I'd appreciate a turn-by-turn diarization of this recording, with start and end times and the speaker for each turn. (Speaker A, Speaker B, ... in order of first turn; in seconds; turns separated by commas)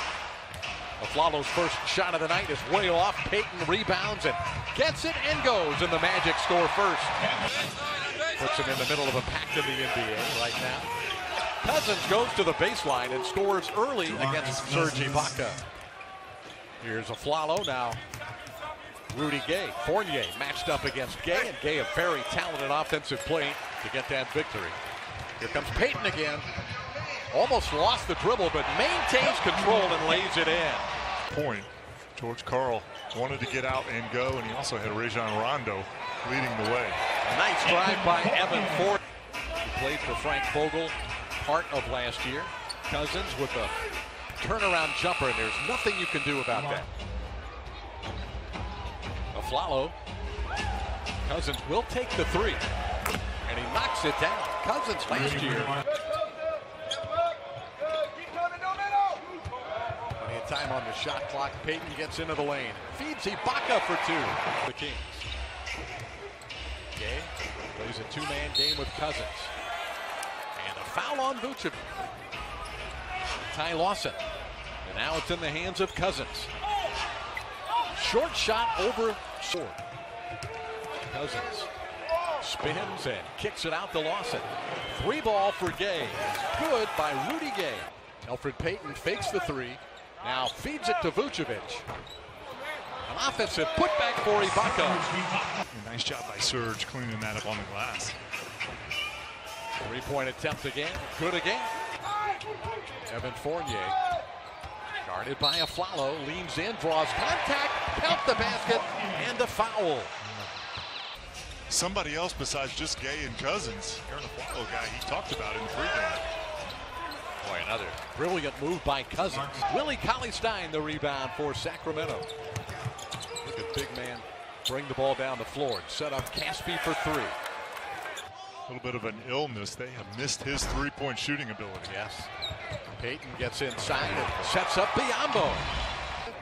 Speaker A: 1.0-7.2, Speaker A: 8.4-10.9, Speaker A: 11.6-15.6, Speaker A: 16.8-18.0, Speaker A: 19.1-24.8, Speaker A: 25.4-26.5, Speaker A: 27.3-30.9, Speaker B: 31.3-37.0, Speaker A: 37.3-39.0, Speaker A: 39.6-43.7, Speaker A: 44.4-46.9, Speaker A: 49.3-50.0, Speaker A: 51.2-52.6, Speaker A: 53.5-55.8, Speaker A: 60.2-65.3, Speaker A: 67.0-69.5, Speaker A: 70.5-71.8, Speaker A: 73.5-74.2, Speaker A: 74.8-76.5, Speaker A: 77.9-79.8, Speaker A: 81.1-81.7, Speaker A: 82.4-91.8, Speaker A: 93.0-95.2, Speaker B: 95.7-98.2, Speaker A: 99.8-101.7, Speaker A: 102.9-104.0, Speaker A: 105.0-110.1, Speaker B: 110.3-110.5, Speaker B: 111.7-116.2, Speaker A: 117.4-122.3, Speaker A: 123.4-127.4, Speaker B: 128.7-131.9, Speaker A: 131.9-132.3, Speaker A: 132.9-135.7